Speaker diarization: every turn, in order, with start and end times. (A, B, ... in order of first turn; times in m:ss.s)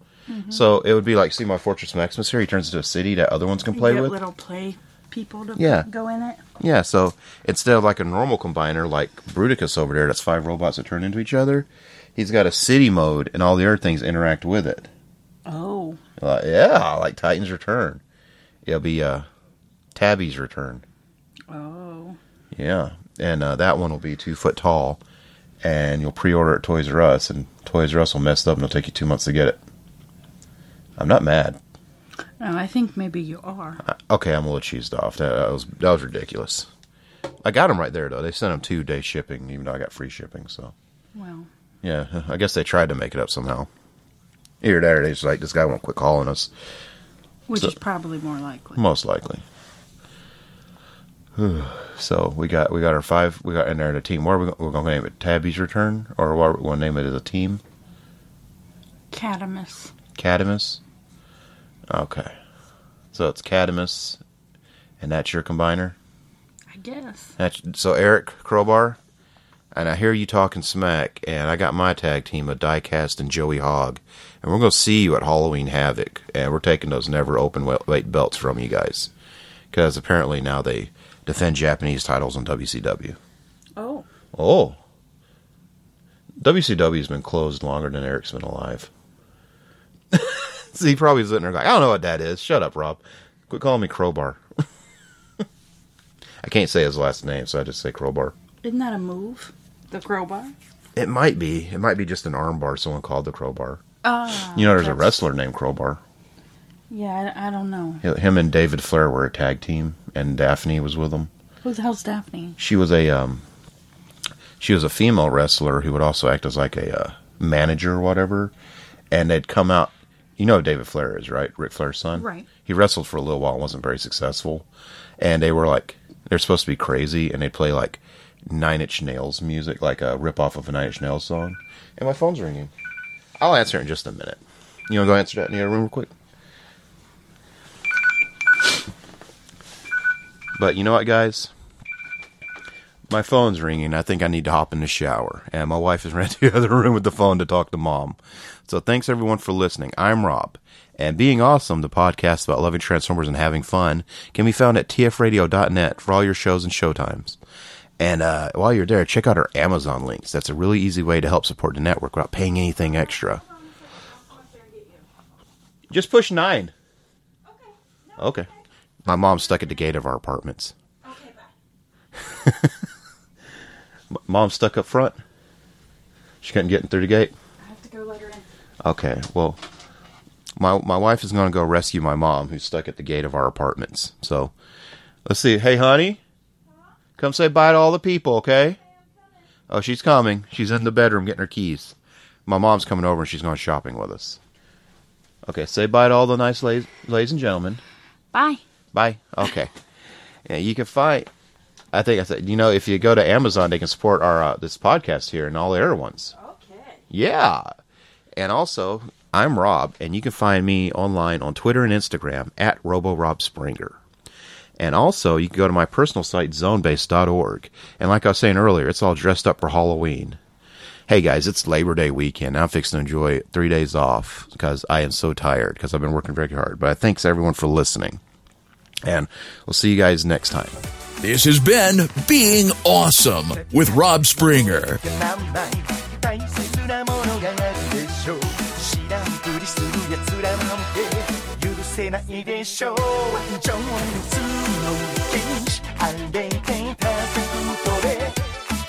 0:00.3-0:00.7 A
0:00.5-0:04.2 B
0:03.7-0:06.4 A
0:05.6-0:05.9 B
0:06.6-0:14.9 B
0:15.4-0:16.0 A
0:16.2-0:18.0 B
0:18.6-0:19.2 B
0:19.9-0:20.8 B
0:21.5-0:22.2 A
0:22.5-0:25.0 B
0:25.6-0:29.6 B
0:31.0-0:31.6 B
0:32.4-0:33.8 A
0:33.8-0:36.7 B
0:37.4-0:40.7 B
0:41.1-0:41.5 A
0:41.8-0:43.7 B
0:44.6-0:46.5 B
0:47.5-0:48.8 A
0:48.8-0:49.4 B
0:51.4-0:57.6 B
0:59.1-0:59.9 A
1:00.1-1:00.8 B
1:01.9-1:02.4 B
1:03.1-1:04.2 B
1:05.0-1:06.0 B
1:06.7-1:07.4 A
1:07.4-1:09.0 B
1:09.7-1:19.1 B
1:19.7-1:23.2 B
1:23.8-1:24.1 A
1:24.3-1:24.8 B
1:26.4-1:28.9 B
1:30.1-1:34.4 B
1:36.4-1:38.3 B
1:38.6-1:40.5 A
1:41.0-1:43.8 B
1:44.0-1:45.2 A
1:44.4-1:46.0 B
1:46.9-1:48.0 A
1:48.0-1:51.3 B
1:51.6-1:52.6 A
1:52.6-1:53.4 B
1:54.6-1:58.5 B
1:59.1-2:04.7 B
2:02.1-2:02.5 A
2:05.2-2:12.7 B
2:13.4-2:16.1 B
2:20.6-2:21.5 B
2:23.1-2:37.4 B
2:38.0-2:43.4 B
2:43.0-2:45.0 A
2:45.9-2:46.7 B
2:47.4-2:48.5 A
2:48.2-2:48.5 B
2:49.0-2:50.7 B
2:51.0-2:51.5 A
2:52.2-2:52.8 B
2:54.1-2:55.2 B
2:56.4-2:57.3 B
2:57.6-2:58.5 A
2:58.8-2:59.6 B
3:00.6-3:04.5 B
3:05.2-3:06.2 B
3:07.2-3:08.8 B
3:09.7-3:14.4 B
3:15.4-3:17.8 B
3:18.3-3:18.6 A
3:18.9-3:19.7 B
3:20.4-3:21.3 B
3:21.9-3:26.3 B
3:26.3-3:27.0 A
3:27.1-3:27.7 B
3:28.4-3:34.0 B
3:34.8-3:40.4 B
3:41.1-3:48.2 B
3:49.0-3:50.7 B
3:51.2-3:55.0 C
3:53.0-4:08.4 D